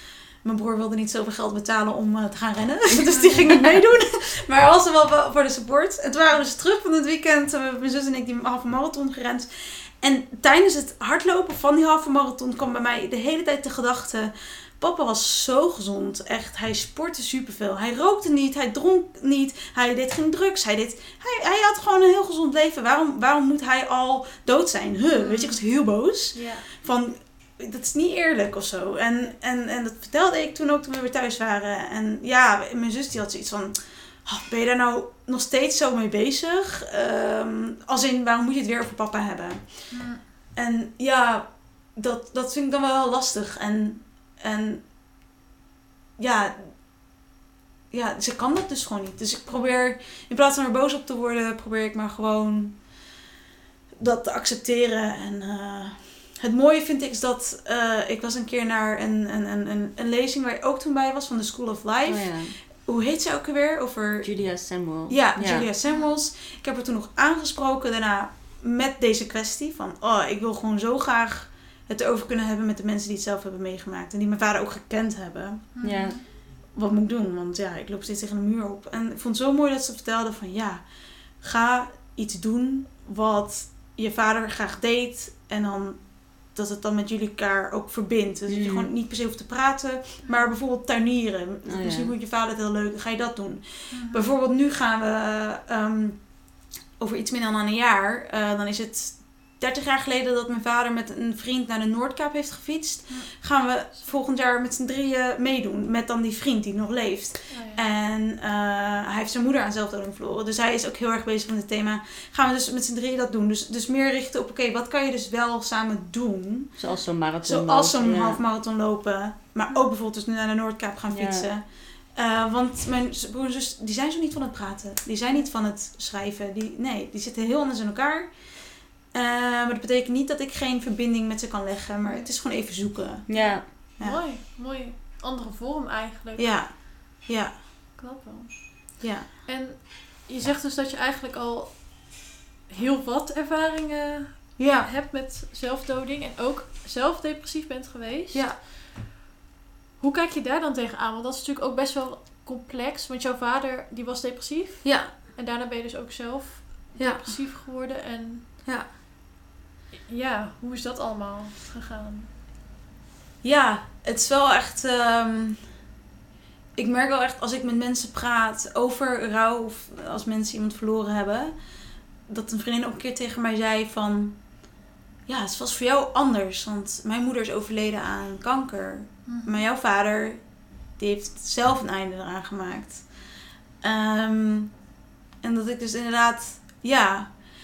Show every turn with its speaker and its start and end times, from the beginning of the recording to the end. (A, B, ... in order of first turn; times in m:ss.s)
0:00.4-0:44.8 A
0:03.1-0:03.5 B
0:25.1-0:25.6 B
0:26.3-0:26.7 B
0:39.9-0:40.2 B
0:46.2-0:46.8 A
0:47.9-0:53.0 A
0:54.0-1:04.3 A
1:02.0-1:02.6 C
1:04.2-1:05.7 C
1:05.1-1:15.7 A
1:15.8-1:16.2 B
1:15.8-1:16.2 C
1:16.7-1:20.8 A
1:21.4-1:56.7 A
1:28.5-1:28.9 C
1:30.2-1:30.5 B
1:31.6-1:32.1 C
1:33.9-1:34.3 B
1:43.1-1:44.1 B
1:47.5-1:47.8 B
1:56.8-1:58.4 C
1:57.4-2:08.3 A
2:01.1-2:01.5 C
2:09.1-2:14.2 A
2:12.0-2:12.3 B
2:13.3-2:13.7 C
2:13.3-2:16.6 B
2:16.4-2:17.5 A
2:18.0-2:28.7 B
2:19.0-2:19.3 A
2:24.6-2:24.9 A
2:28.3-2:28.6 A
2:30.0-2:38.4 B
2:34.8-2:35.1 A
2:37.0-2:37.4 A
2:40.1-2:42.3 B
2:43.4-2:45.8 A
2:46.8-2:51.6 A
2:52.3-2:54.5 A
2:55.3-3:00.4 A
2:59.3-2:59.6 B
3:01.0-3:03.1 A
3:03.8-3:04.7 A
3:05.4-3:07.3 A